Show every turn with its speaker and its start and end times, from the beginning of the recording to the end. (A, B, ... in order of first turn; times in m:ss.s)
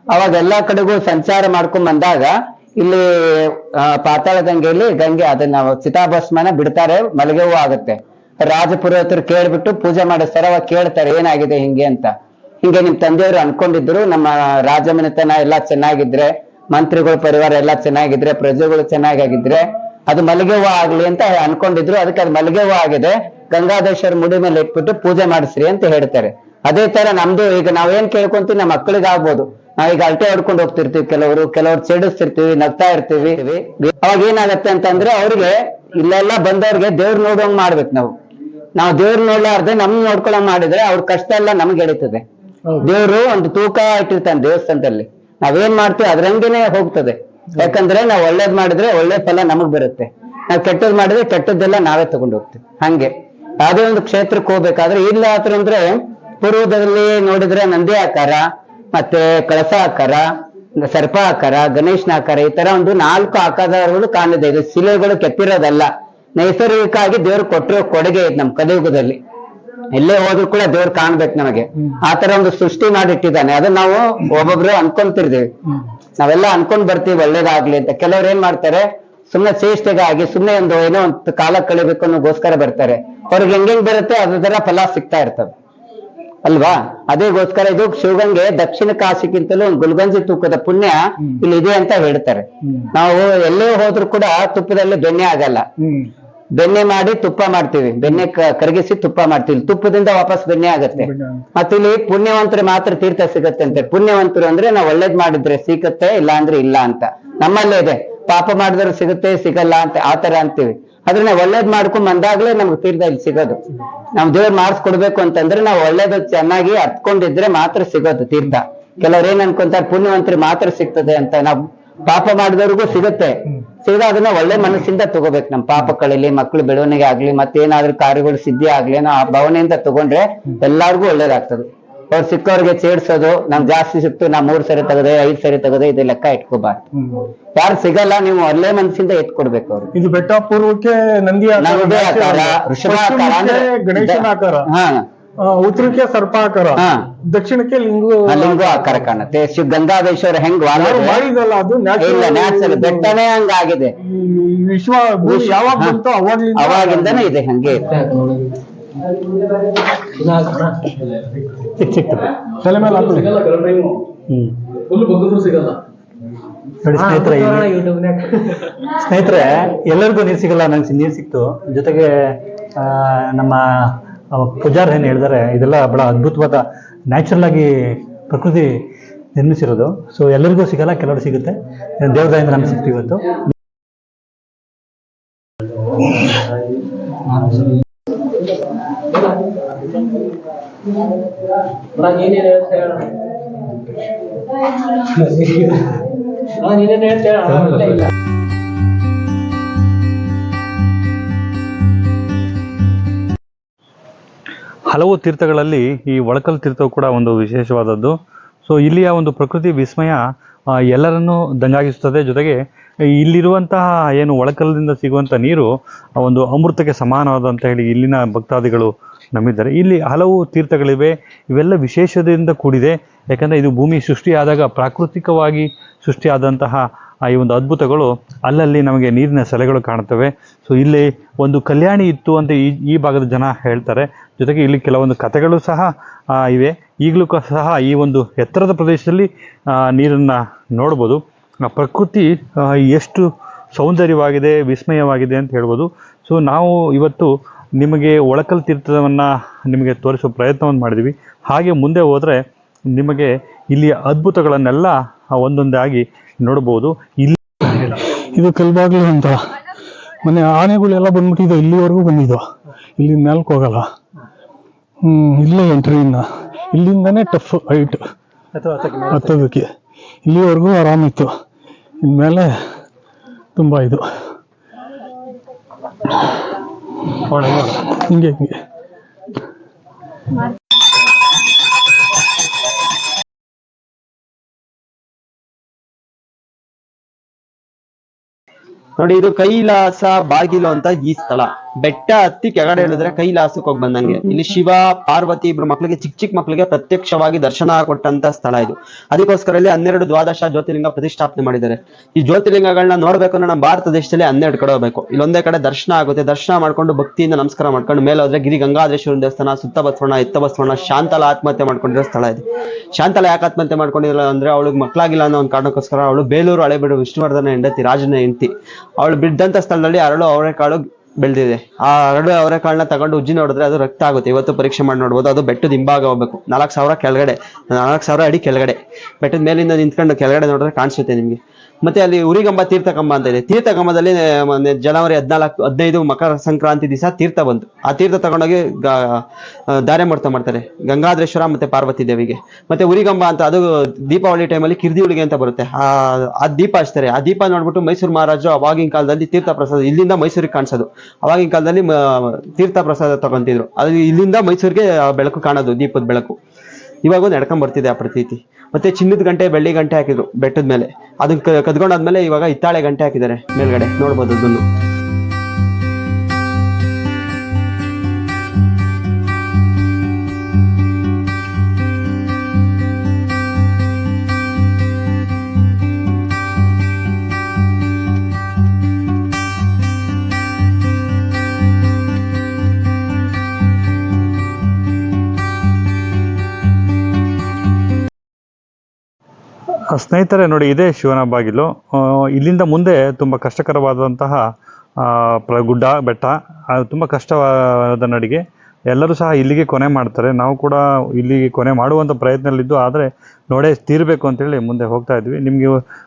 0:00.1-0:12.1 A
0:12.6-0:38.1 A
0:38.8-0:42.2 A
0:42.8-0:53.1 A
0:53.6-0:58.4 A
0:58.9-1:00.2 A
1:00.8-1:09.2 A
1:09.9-1:15.4 A
1:16.2-1:25.5 A
1:26.4-1:35.6 A
1:35.8-1:36.1 B
1:36.6-1:53.6 A
1:41.0-1:41.4 B
1:54.2-2:16.8 A
2:16.9-2:17.2 B
2:17.6-2:19.9 A
2:19.9-2:24.6 B
2:21.6-2:25.0 A
2:25.4-2:29.0 B
2:28.3-2:31.2 A
2:30.7-2:33.1 B
2:32.0-2:33.9 A
2:34.0-2:37.3 B
2:35.2-2:36.0 A
2:36.6-2:37.8 A
2:37.8-2:38.6 C
2:40.2-2:41.0 C
2:41.8-2:42.3 D
2:42.6-2:43.4 B
2:42.8-2:44.0 C
2:44.3-2:44.5 D
2:44.9-2:45.8 C
2:46.8-2:47.7 D
2:46.9-2:48.5 C
2:48.9-2:58.7 D
2:59.4-3:03.2 D
3:07.4-3:07.7 C
3:11.9-3:13.1 C
3:15.1-3:15.9 C
3:16.6-3:18.1 C
3:24.9-3:28.1 D
3:28.6-3:30.2 D
3:30.9-3:32.6 D
3:33.2-3:59.3 D
3:59.8-4:12.4 D
4:12.9-4:18.0 D
4:18.3-4:19.4 B
4:20.2-4:22.4 B
4:23.0-4:23.8 B
4:25.0-4:28.0 B
4:28.5-4:29.4 D
4:29.1-4:29.7 B
4:30.2-4:31.3 B
4:32.0-4:32.5 B
4:33.6-4:34.0 B
4:37.3-4:37.9 D
4:37.9-4:38.6 B
4:49.0-5:12.4 E
5:13.0-5:18.5 E
5:19.0-5:39.0 E
5:39.7-5:45.9 E
5:46.4-5:51.9 E
5:52.6-5:56.3 E
5:57.0-6:04.6 E
6:29.9-6:34.4 D
6:35.0-6:45.8 D